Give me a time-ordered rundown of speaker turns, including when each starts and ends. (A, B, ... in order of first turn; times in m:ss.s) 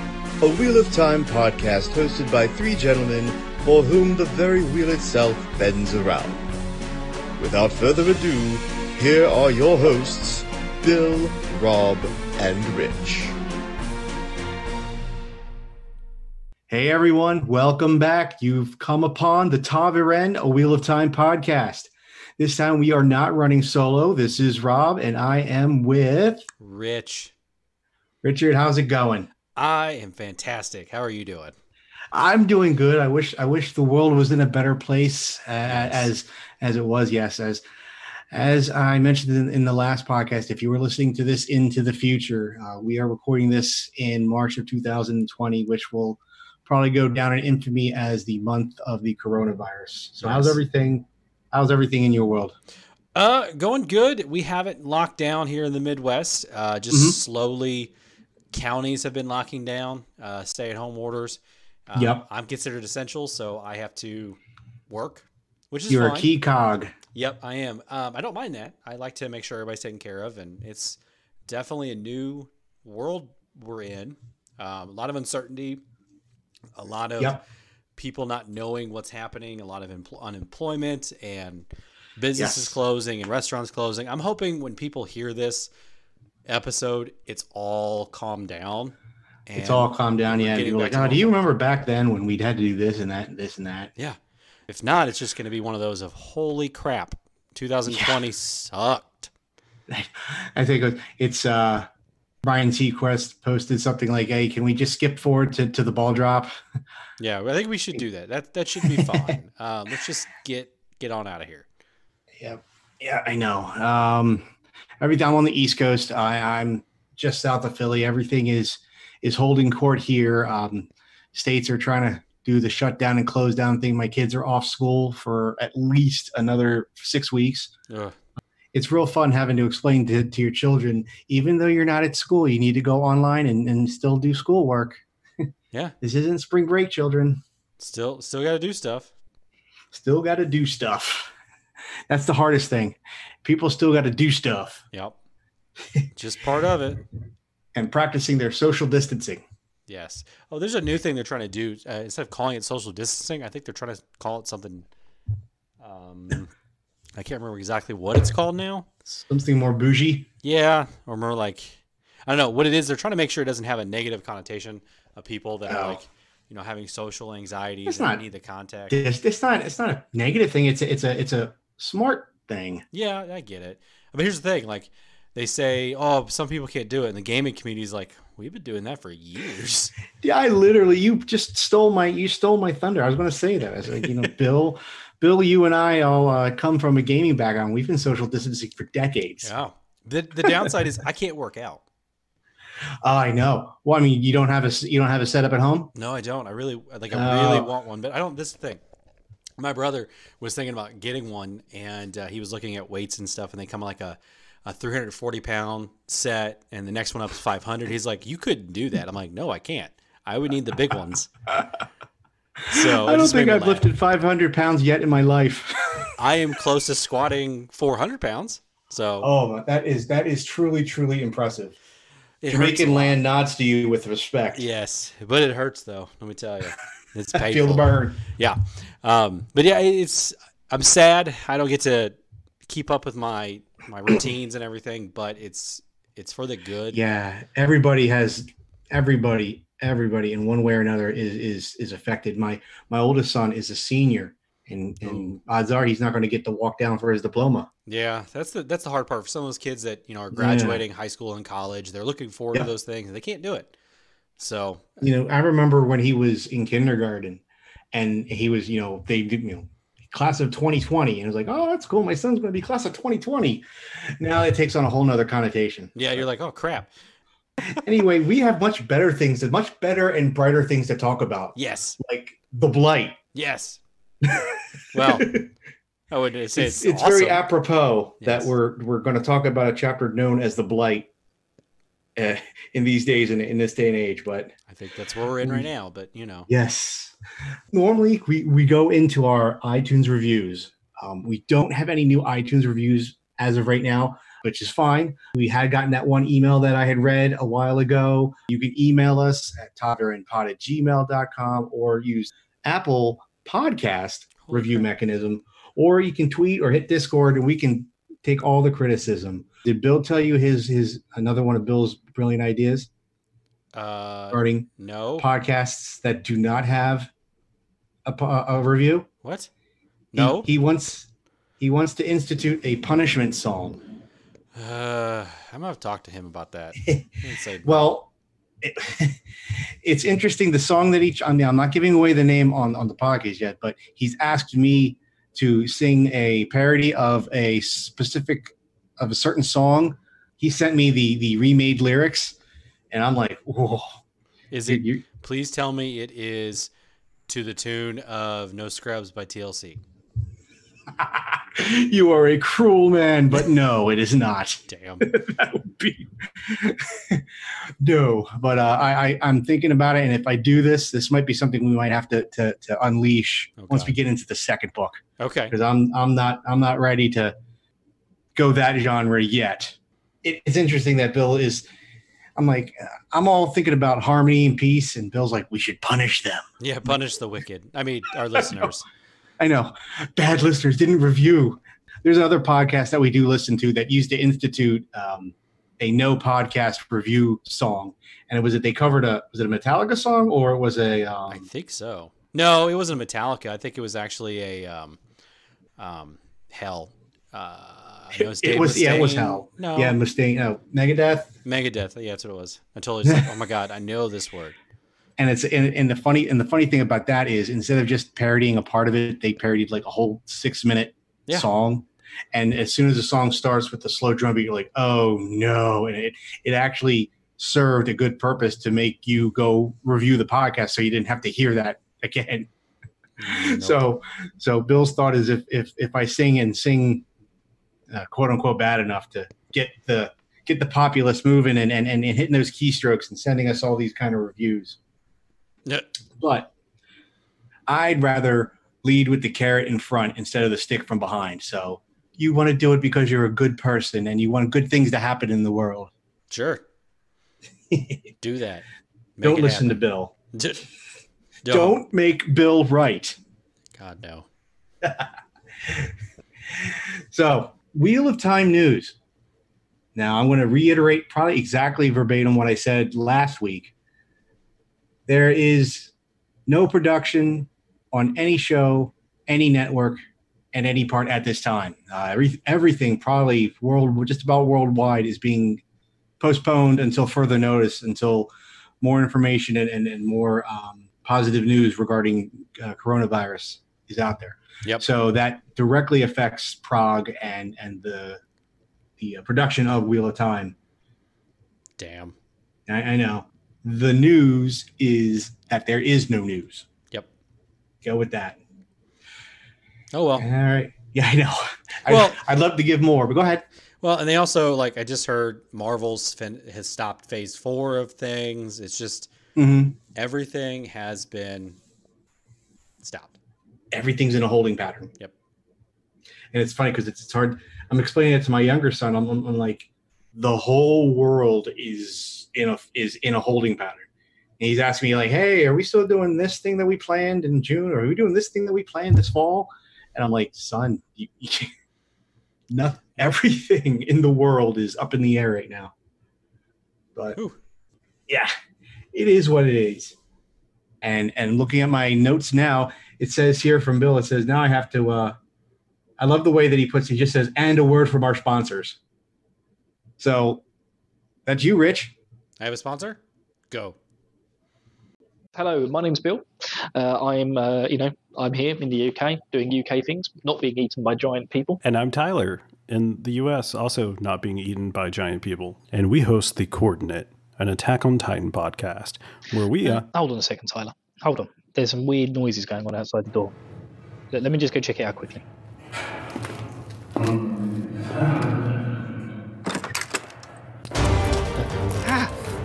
0:00.4-0:06.4 A
0:07.4-0:13.3 A
0:16.7-0:26.5 B
0:26.6-0:27.3 C
0:28.2-0:29.3 B
0:29.5-0:31.5 C
0:32.1-0:37.6 B
0:35.6-0:36.1 C
0:38.3-0:52.5 B
0:50.2-0:50.6 C
0:53.1-0:57.9 C
0:56.9-0:57.2 B
0:58.5-1:06.3 C
1:01.9-1:02.2 B
1:05.9-1:06.9 B
1:07.1-1:15.8 C
1:16.8-1:17.4 C
1:18.0-1:25.7 C
1:22.4-1:22.8 B
1:26.4-1:28.9 C
1:29.5-1:31.4 C
1:29.6-1:33.9 B
1:34.7-1:39.3 C
1:37.9-1:38.2 B
1:39.9-1:41.9 B
1:42.4-1:46.5 B
1:47.2-1:51.7 C
1:48.8-1:49.3 B
1:52.4-1:54.4 B
1:55.0-2:07.7 B
2:07.9-2:08.2 C
2:08.7-2:15.0 B
2:16.0-2:17.4 B
2:17.8-2:19.1 C
2:19.9-2:21.3 B
2:22.1-2:24.8 B
2:26.2-2:27.0 C
2:27.7-2:29.4 B
2:29.9-2:34.9 C
2:35.8-2:36.5 C
2:37.2-2:38.9 C
2:39.1-2:40.3 B
2:40.4-2:49.0 C
2:45.7-2:46.0 B
2:47.8-2:48.2 B
2:48.9-2:52.8 B
2:52.9-2:59.9 C
3:00.2-3:09.5 B
3:09.4-3:11.8 C
3:13.0-3:15.9 B
3:15.9-3:18.8 C
3:17.1-3:17.7 B
3:19.6-3:31.3 C
3:32.6-3:36.1 B
3:32.7-3:33.9 C
3:36.2-3:39.3 C
3:39.2-3:41.8 B
3:42.4-3:43.2 C
3:42.5-3:44.6 B
3:44.5-3:57.0 C
3:47.3-3:48.2 B
3:56.9-4:07.7 B
4:05.0-4:05.3 C
4:07.9-4:13.7 C
4:10.3-4:10.8 B
4:14.4-4:15.0 C
4:15.0-4:23.6 B
4:24.2-4:26.2 B
4:25.9-4:26.9 C
4:27.8-4:33.2 B
4:31.5-4:32.0 C
4:33.3-4:33.8 C
4:34.2-4:35.5 B
4:34.9-4:35.3 C
4:36.1-4:37.5 C
4:36.6-4:41.1 B
4:38.2-4:38.5 C
4:42.2-4:44.5 B
4:44.7-4:46.5 C
4:45.4-4:45.7 B
4:46.5-4:47.1 B
4:47.7-5:12.9 B
5:04.4-5:04.8 C
5:13.7-5:15.3 C
5:14.3-5:17.1 B
5:18.0-5:19.1 B
5:19.2-5:19.5 C
5:20.1-5:20.5 C
5:20.1-5:21.1 B
5:21.6-5:23.8 B
5:24.5-5:27.9 C
5:27.6-5:28.1 B
5:28.6-5:29.2 B
5:29.8-5:42.4 B
5:42.9-5:44.0 B
5:44.5-5:46.7 C
5:44.7-5:45.0 B
5:47.3-5:49.8 C
5:51.0-5:57.2 B
5:54.7-5:55.1 C
5:57.8-6:05.0 B
6:03.6-6:04.0 C
6:05.2-6:05.5 C
6:05.5-6:07.3 B
6:08.3-6:11.7 B
6:12.4-6:17.0 B
6:16.6-6:18.8 C
6:18.4-6:18.7 B
6:19.4-6:31.4 B
6:31.3-6:35.0 C
6:35.8-6:40.0 C
6:38.2-6:41.3 B
6:41.4-6:44.6 C
6:45.2-7:02.5 B
7:03.2-7:03.8 C
7:03.2-7:07.0 B
7:07.9-7:14.8 B
7:16.2-7:16.5 B
7:17.7-7:25.9 B
7:26.3-7:26.6 C
7:27.7-7:28.0 B
7:28.2-7:28.6 C
7:29.2-7:29.8 C
7:29.2-7:30.1 B
7:30.3-7:30.6 C
7:31.4-7:31.8 C
7:31.5-7:33.2 B
7:33.8-7:34.3 C
7:35.6-7:35.9 B
7:36.5-7:39.0 B
7:39.9-7:43.7 B
7:45.1-7:45.9 B
7:46.5-7:50.0 B
7:50.5-7:55.6 B
7:56.2-7:58.3 B
7:58.8-8:08.2 B
8:09.0-8:10.6 B
8:11.8-8:12.1 C
8:12.7-8:16.7 B
8:17.8-8:18.4 B
8:19.9-8:20.3 C
8:20.2-8:23.4 B
8:21.9-8:22.2 C
8:23.8-8:29.1 C
8:29.4-8:29.8 B
8:29.9-8:31.6 C
8:32.8-8:33.1 C
8:33.7-8:34.9 B
8:36.3-8:43.9 B
8:44.4-8:51.5 B
8:52.5-8:55.7 B
8:58.1-8:58.3 B
8:58.9-9:00.0 B
9:00.8-9:05.2 B
9:06.0-9:08.8 B
9:10.0-9:10.4 B
9:11.2-9:11.9 B
9:12.4-9:13.0 C
9:13.5-9:13.8 C
9:15.3-9:21.6 D
9:21.6-9:29.8 E
9:29.6-9:33.3 D
9:34.1-9:35.2 D
9:41.8-9:42.1 D